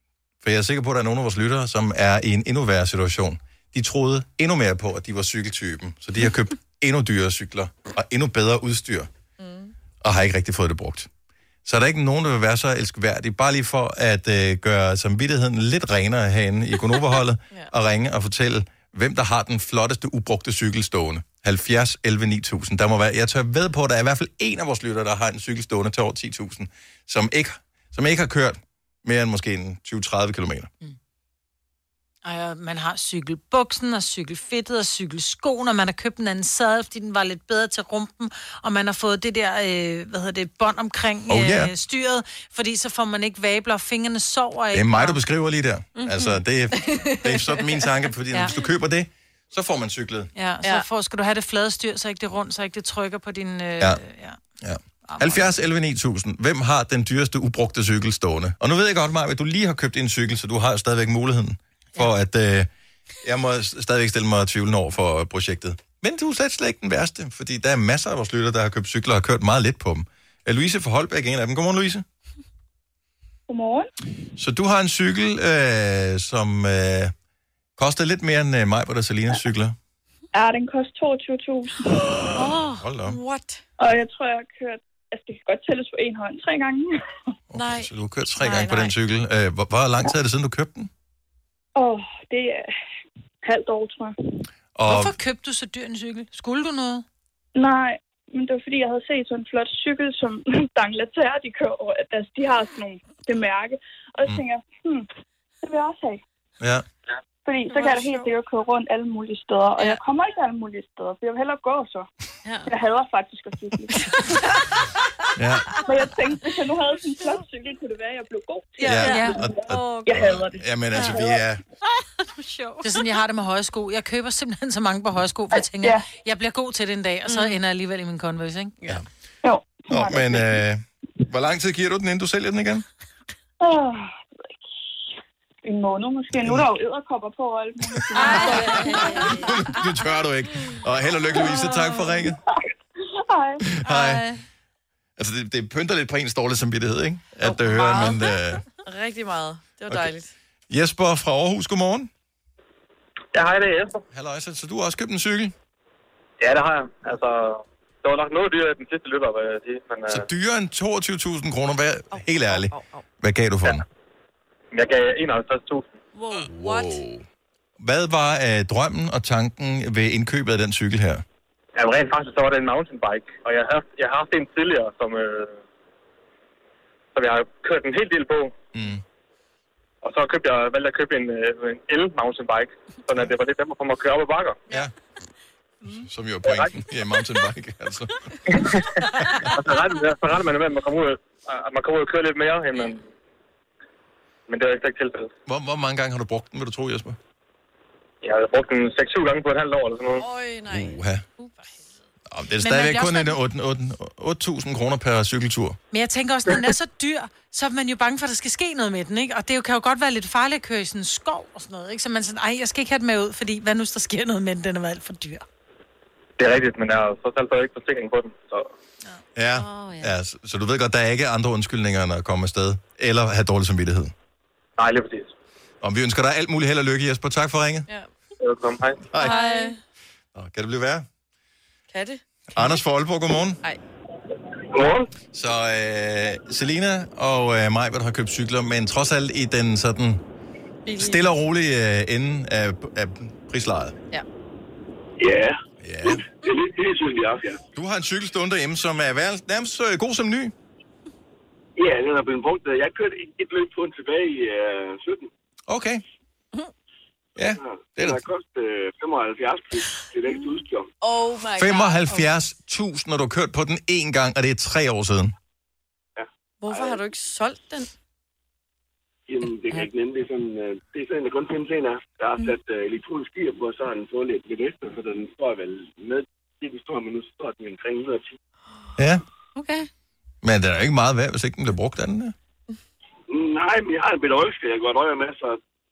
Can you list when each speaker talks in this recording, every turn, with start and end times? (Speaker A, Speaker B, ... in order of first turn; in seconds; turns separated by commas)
Speaker A: 0.4-9.1, Speaker B: 9.4-9.7, Speaker A: 10.0-11.1, Speaker A: 11.6-30.7, Speaker C: 32.2-45.2, Speaker A: 41.3-41.7, Speaker A: 44.7-50.3, Speaker D: 46.0-46.3, Speaker B: 46.8-47.6, Speaker C: 50.3-54.4, Speaker A: 54.6-62.7, Speaker C: 55.0-55.5, Speaker A: 63.2-72.0, Speaker E: 73.5-73.9, Speaker A: 74.4-77.1, Speaker A: 77.8-79.8, Speaker E: 80.3-82.1, Speaker D: 82.3-82.8, Speaker A: 82.8-83.2, Speaker B: 83.0-83.6, Speaker E: 83.8-87.0, Speaker A: 87.5-90.9, Speaker B: 88.4-88.9, Speaker E: 91.8-92.7, Speaker E: 93.4-94.2, Speaker A: 94.7-95.2, Speaker C: 94.8-97.0, Speaker E: 97.5-105.1, Speaker E: 105.6-106.2, Speaker E: 107.4-112.1, Speaker D: 107.7-108.3, Speaker D: 112.4-112.7, Speaker E: 112.7-114.3, Speaker A: 115.3-115.7, Speaker E: 115.8-120.6, Speaker D: 118.8-119.3, Speaker A: 118.8-121.6, Speaker C: 119.0-119.5, Speaker D: 122.4-122.9, Speaker C: 122.8-128.7, Speaker E: 125.8-126.0, Speaker D: 127.3-127.5, Speaker E: 129.4-130.6, Speaker A: 129.9-132.8, Speaker E: 133.6-134.2, Speaker E: 135.6-139.4, Speaker A: 136.3-136.7, Speaker D: 138.2-139.3, Speaker A: 138.3-142.4, Speaker E: 141.4-141.7, Speaker E: 143.2-143.6, Speaker A: 143.7-144.2, Speaker D: 143.9-144.2, Speaker C: 144.0-144.2, Speaker A: 145.2-148.6, Speaker B: 147.4-150.3, Speaker A: 150.7-152.1, Speaker F: 153.3-154.0, Speaker A: 154.1-155.5, Speaker F: 156.4-160.2, Speaker A: 160.1-163.8, Speaker B: 162.1-163.0, Speaker F: 164.7-165.9, Speaker B: 166.2-167.0, Speaker A: 166.3-167.2, Speaker A: 167.8-171.2, Speaker F: 171.8-175.6, Speaker F: 177.1-178.5, Speaker A: 178.7-179.0, Speaker F: 180.0-184.6, Speaker A: 186.0-188.2, Speaker F: 186.4-186.7, Speaker F: 188.5-193.0, Speaker F: 194.5-195.3, Speaker A: 195.5-197.2, Speaker F: 198.2-200.2, Speaker B: 200.1-201.0, Speaker A: 200.7-201.2, Speaker A: 202.3-205.8, Speaker C: 202.6-203.4, Speaker C: 205.9-215.4, Speaker F: 216.4-218.7, Speaker A: 219.3-224.1, Speaker D: 219.5-220.1, Speaker F: 224.8-225.3, Speaker A: 225.8-227.8, Speaker F: 228.4-229.0, Speaker A: 229.1-229.4, Speaker B: 229.2-229.8, Speaker D: 229.2-229.7, Speaker A: 230.3-231.1, Speaker B: 231.9-232.2, Speaker A: 232.5-233.6, Speaker F: 234.7-235.1, Speaker A: 235.3-240.2, Speaker B: 240.8-241.2, Speaker A: 241.0-243.9, Speaker G: 245.2-247.6, Speaker A: 245.8-246.2, Speaker A: 247.7-250.5, Speaker G: 251.8-255.3, Speaker A: 255.7-256.0, Speaker A: 257.4-258.2, Speaker G: 257.4-260.9, Speaker B: 261.0-262.2, Speaker A: 261.6-265.3, Speaker G: 266.2-267.0, Speaker B: 266.6-267.9, Speaker G: 269.3-278.4, Speaker A: 279.0-279.2, Speaker D: 279.6-279.9, Speaker A: 280.4-282.3, Speaker G: 283.3-285.6